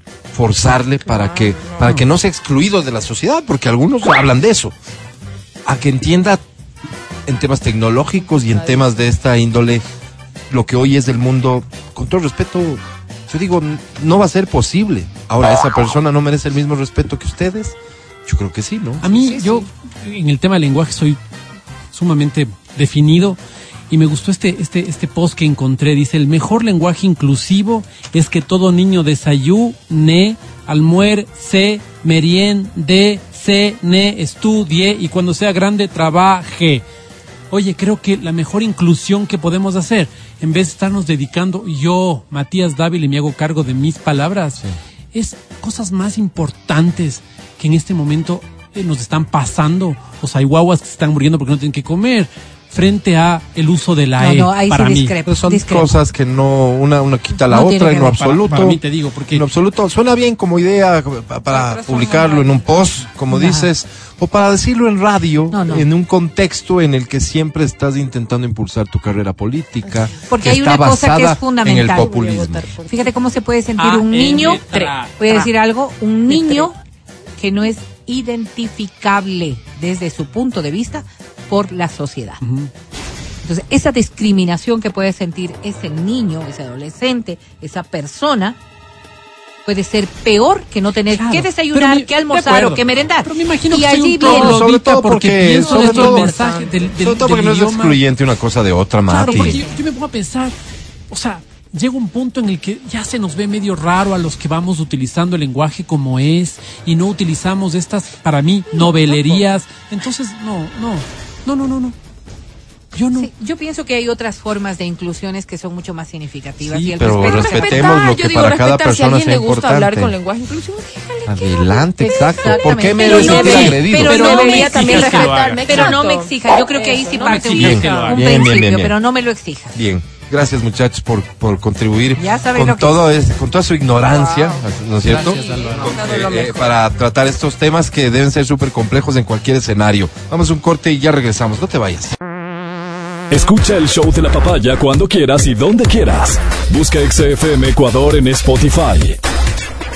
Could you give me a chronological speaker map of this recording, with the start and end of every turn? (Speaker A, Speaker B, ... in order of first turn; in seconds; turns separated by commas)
Speaker A: 0.3-4.7, Speaker B: 1.1-2.0, Speaker A: 5.7-6.4, Speaker A: 7.2-9.8, Speaker B: 8.4-8.9, Speaker A: 10.5-19.1, Speaker C: 19.0-21.2, Speaker D: 19.1-19.6, Speaker C: 21.9-23.4, Speaker C: 23.9-36.8, Speaker C: 37.5-55.1, Speaker D: 54.2-55.9, Speaker A: 55.2-72.7, Speaker D: 57.5-58.2, Speaker C: 58.0-59.5, Speaker B: 61.7-62.5, Speaker D: 63.3-63.7, Speaker D: 65.5-65.9, Speaker D: 70.3-72.1, Speaker B: 71.8-73.3, Speaker D: 72.9-74.6, Speaker C: 73.8-75.2, Speaker B: 74.4-75.5, Speaker D: 75.2-76.7, Speaker B: 76.4-76.7, Speaker D: 77.4-82.4, Speaker C: 82.4-82.7, Speaker D: 83.4-88.6, Speaker D: 89.7-94.6, Speaker C: 91.1-98.0, Speaker A: 94.2-96.3, Speaker B: 95.7-96.7, Speaker D: 95.9-96.6, Speaker A: 97.0-99.6, Speaker C: 99.1-100.5, Speaker D: 99.2-99.8, Speaker C: 101.1-112.0, Speaker C: 112.9-113.3, Speaker D: 113.1-117.9, Speaker C: 116.6-117.2, Speaker A: 116.9-120.1, Speaker B: 117.3-128.1, Speaker A: 121.3-124.2, Speaker D: 122.0-129.8, Speaker C: 123.0-126.0, Speaker C: 127.2-128.2, Speaker A: 127.5-129.0, Speaker A: 129.7-142.1, Speaker D: 132.2-133.0, Speaker B: 134.0-136.8, Speaker C: 135.0-136.0, Speaker E: 143.3-149.2